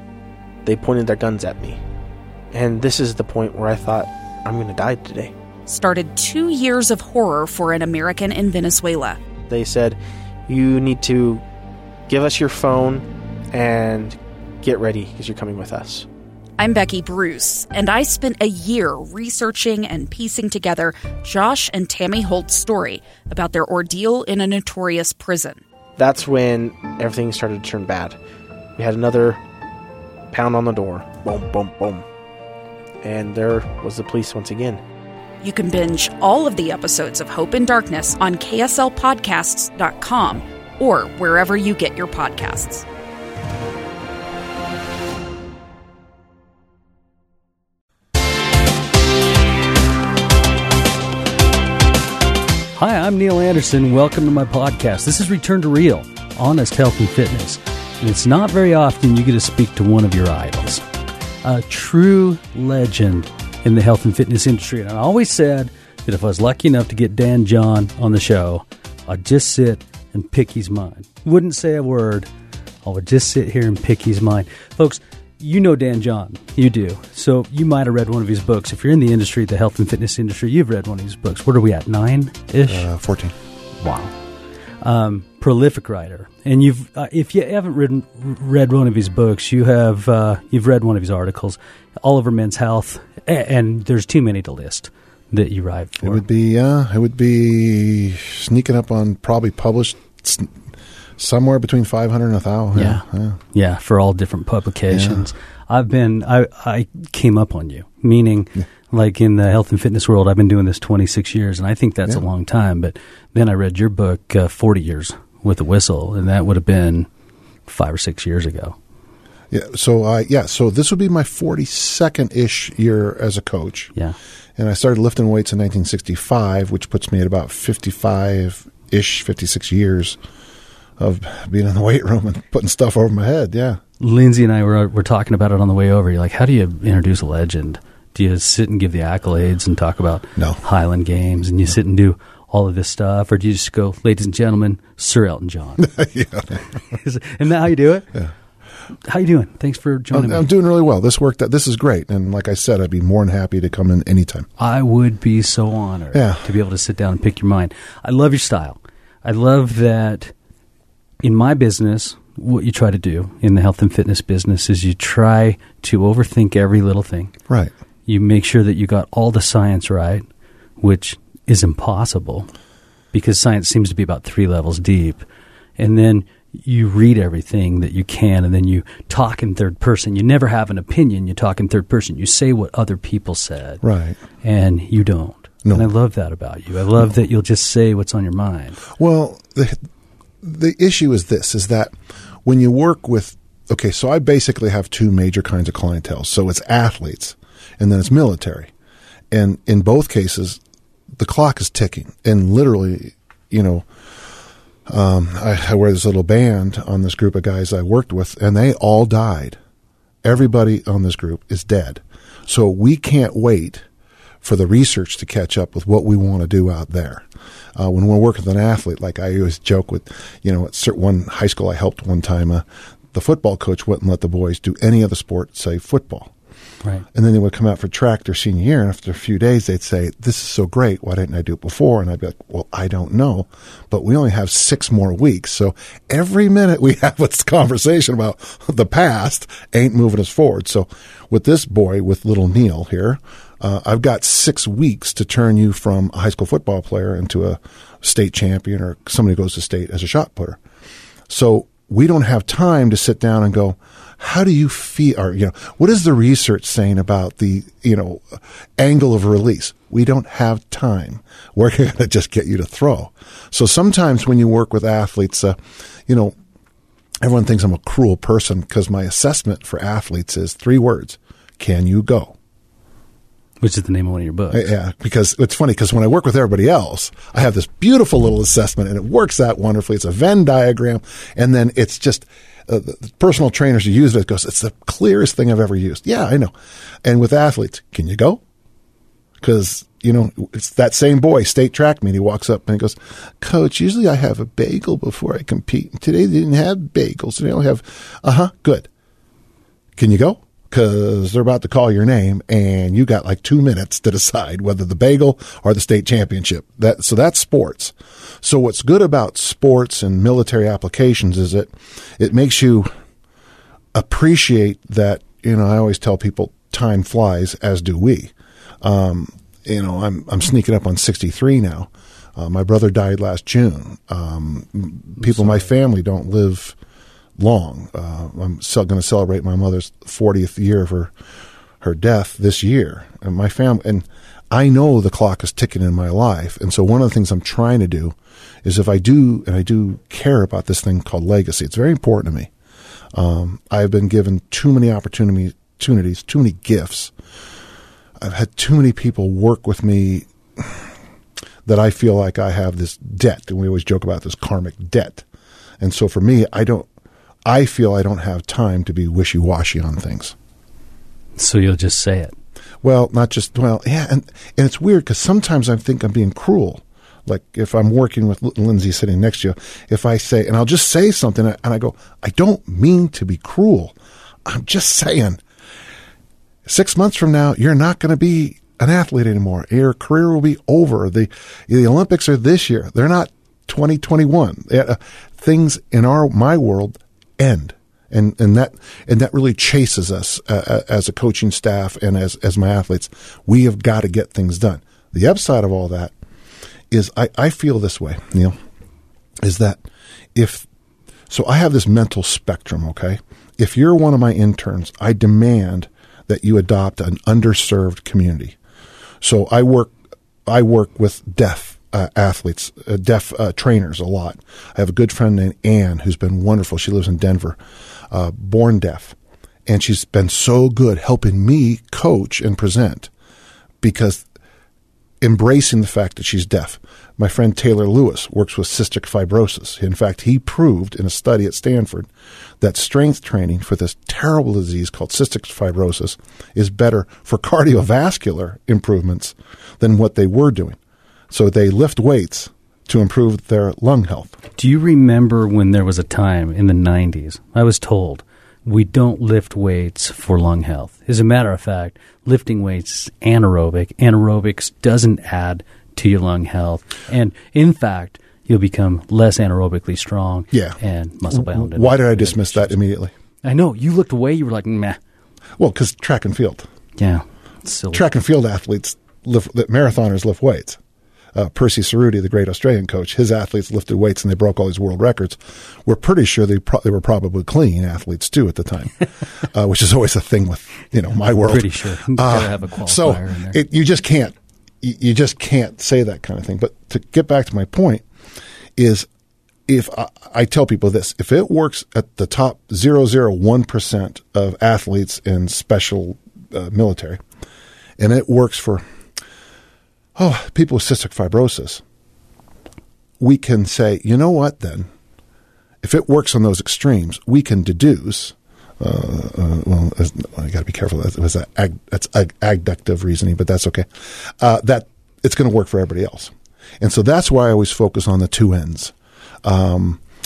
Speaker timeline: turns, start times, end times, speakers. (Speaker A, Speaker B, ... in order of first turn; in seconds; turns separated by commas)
Speaker A: 0.6-1.8, Speaker A: 2.5-5.3, Speaker B: 5.7-9.2, Speaker A: 9.5-11.4, Speaker A: 12.1-16.1, Speaker B: 16.6-25.6, Speaker A: 26.0-28.2, Speaker A: 28.8-29.4, Speaker A: 30.3-32.0, Speaker A: 33.0-34.8, Speaker B: 35.4-42.8, Speaker C: 52.7-60.8, Speaker C: 61.4-72.3, Speaker C: 72.8-82.9, Speaker D: 82.7-83.3, Speaker C: 83.8-84.1, Speaker C: 84.8-96.2, Speaker D: 96.0-100.5, Speaker D: 101.2-103.4, Speaker C: 102.7-117.1, Speaker D: 104.9-105.2, Speaker C: 117.7-118.8, Speaker D: 119.5-123.9, Speaker D: 124.6-130.2, Speaker D: 131.0-133.8, Speaker C: 134.0-145.9, Speaker D: 145.8-146.6, Speaker C: 146.9-148.1, Speaker C: 149.1-150.5, Speaker D: 150.1-154.5, Speaker C: 154.6-160.3, Speaker D: 156.1-156.4, Speaker C: 161.2-167.3, Speaker C: 168.1-170.2, Speaker C: 170.8-172.5, Speaker C: 173.1-175.2, Speaker C: 175.8-183.8, Speaker D: 183.8-184.2, Speaker C: 184.4-188.8, Speaker D: 188.9-189.8, Speaker D: 190.4-191.9, Speaker D: 192.4-198.7, Speaker D: 199.3-200.6, Speaker D: 201.2-203.9, Speaker D: 204.9-209.6, Speaker D: 210.2-213.8, Speaker D: 214.4-226.3, Speaker D: 227.1-250.6, Speaker D: 251.3-266.3, Speaker D: 267.2-272.3, Speaker C: 273.6-274.7, Speaker D: 274.5-286.5, Speaker D: 287.0-288.4, Speaker D: 289.4-298.9, Speaker D: 300.0-312.9, Speaker D: 313.9-326.8, Speaker C: 325.2-325.6, Speaker D: 327.4-331.1, Speaker D: 331.8-342.5, Speaker D: 343.1-347.1, Speaker D: 348.2-350.9, Speaker D: 351.6-355.2, Speaker D: 355.8-356.9, Speaker D: 357.4-360.3, Speaker C: 361.4-362.3, Speaker D: 362.8-375.4, Speaker D: 376.6-396.1, Speaker D: 396.9-398.6, Speaker D: 399.4-399.8, Speaker D: 400.3-400.7, Speaker D: 401.3-408.6, Speaker D: 409.2-409.9, Speaker D: 410.4-417.6, Speaker D: 418.1-423.1, Speaker D: 423.8-424.2, Speaker D: 425.2-440.8, Speaker D: 441.3-444.4, Speaker C: 444.6-462.8, Speaker D: 460.5-460.8, Speaker D: 461.3-463.1, Speaker C: 463.4-465.0, Speaker D: 465.6-466.7, Speaker C: 467.0-468.1, Speaker D: 467.9-470.8, Speaker D: 471.3-488.0, Speaker C: 481.4-483.6, Speaker D: 488.8-489.1, Speaker D: 489.7-497.2, Speaker D: 498.0-498.8, Speaker D: 500.1-501.8, Speaker D: 503.2-504.9, Speaker D: 505.8-520.0